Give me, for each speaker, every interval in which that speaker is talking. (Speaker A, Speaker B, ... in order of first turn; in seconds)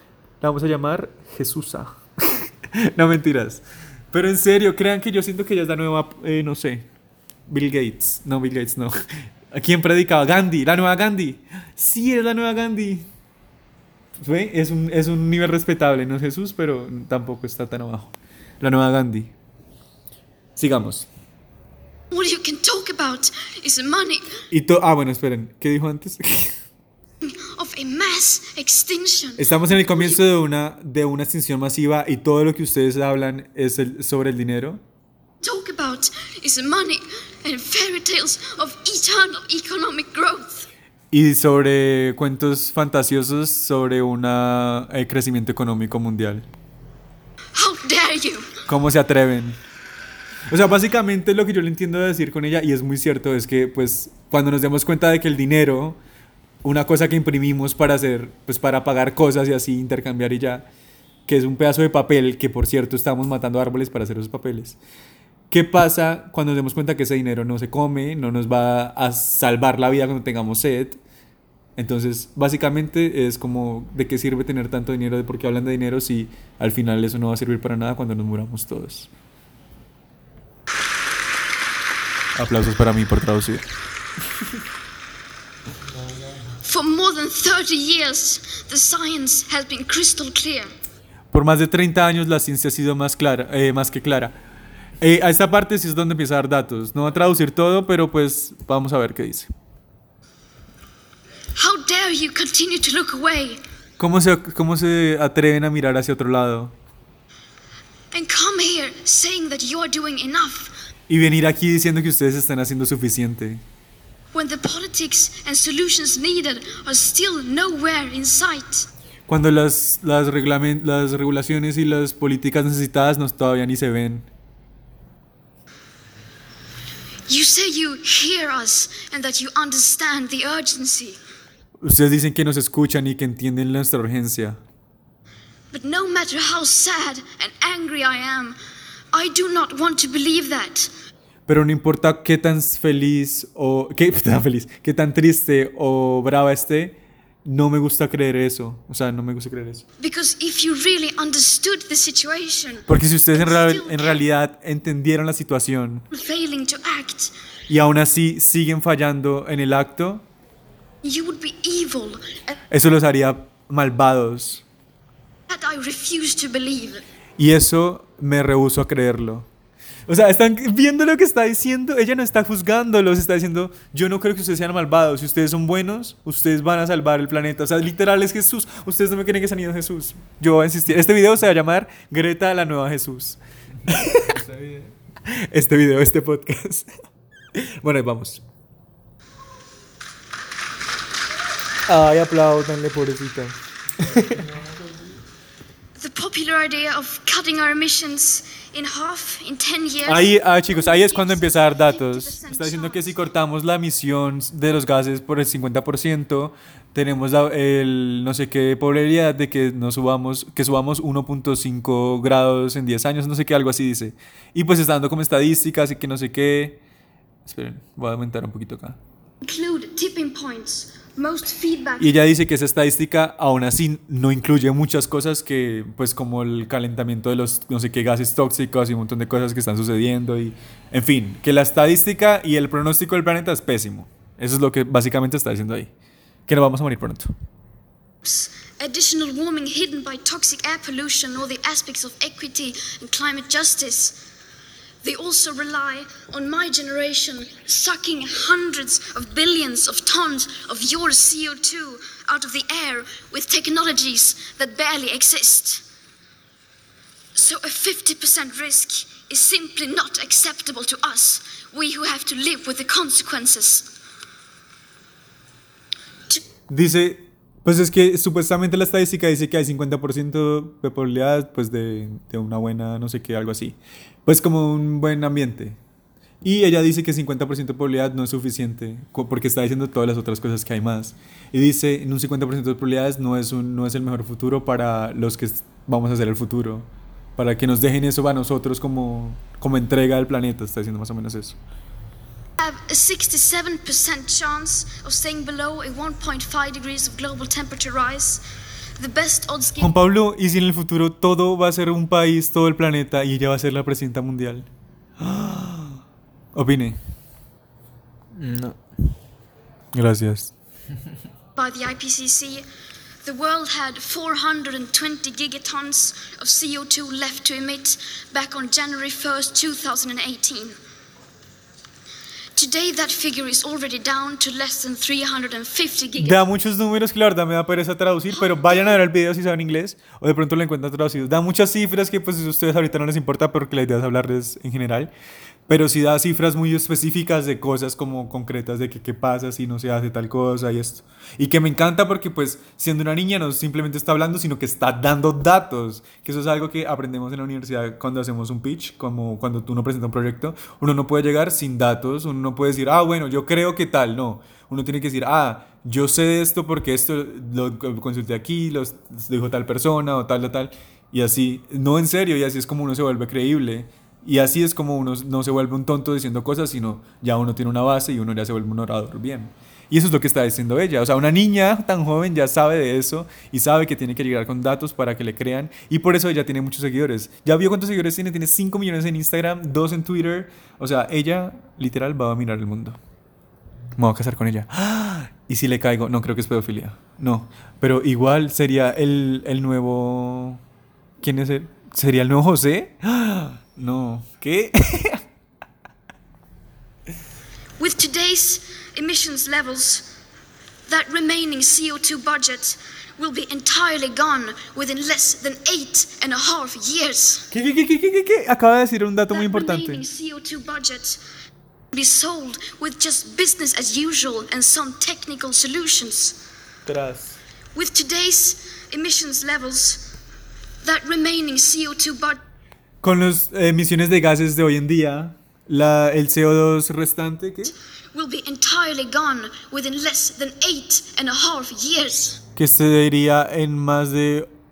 Speaker A: 0.4-6.9, 7.5-13.1, 14.2-19.3, 20.6-21.1, 24.5-26.6, 29.4-34.8, 41.1-46.5, 48.6-49.6, 50.5-56.0, 56.6-60.7, 61.3-64.8, 65.5-71.0, 71.8-79.1, 82.3-83.7, 91.3-94.3, 95.0-99.5, 104.0-106.7, 111.1-113.6, 119.3-124.3, 131.8-134.6, 141.5-149.8, 152.9-156.0, 157.7-160.2, 162.7-164.6, 167.4-169.5, 170.1-184.3, 185.2-186.9, 187.5-188.4, 191.9-194.4, 200.1-216.8, 217.4-219.0, 222.0-235.9, 236.5-237.3, 266.7-275.8, 276.4-291.6, 299.8-304.7, 305.2-306.0, 306.5-307.0, 309.9-310.5, 326.2-335.1, 335.7-383.0, 383.9-390.6, 391.2-395.2, 407.5-410.0, 416.9-417.4, 423.0-427.7, 432.6-434.5
Speaker B: 22.1-24.4, 27.2-30.2, 35.4-40.7, 47.5-48.5, 86.6-90.7, 101.5-103.6, 108.1-110.7, 114.3-118.9, 127.3-131.2, 135.7-138.6, 139.1-140.9, 150.0-154.2, 156.1-157.3, 161.0-162.5, 165.5-167.0, 196.0-203.2, 219.4-222.1, 238.2-244.2, 245.0-255.8, 257.3-263.9, 292.6-298.4, 299.0-299.9, 311.6-312.6, 313.2-320.7, 322.6-326.4, 328.4-328.9, 397.8-400.1, 400.9-407.5, 409.3-411.2, 411.9-416.4, 417.7-420.1, 420.8-422.4, 428.1-432.4
Speaker C: 85.9-86.6, 183.7-184.9, 194.0-195.2, 308.3-309.0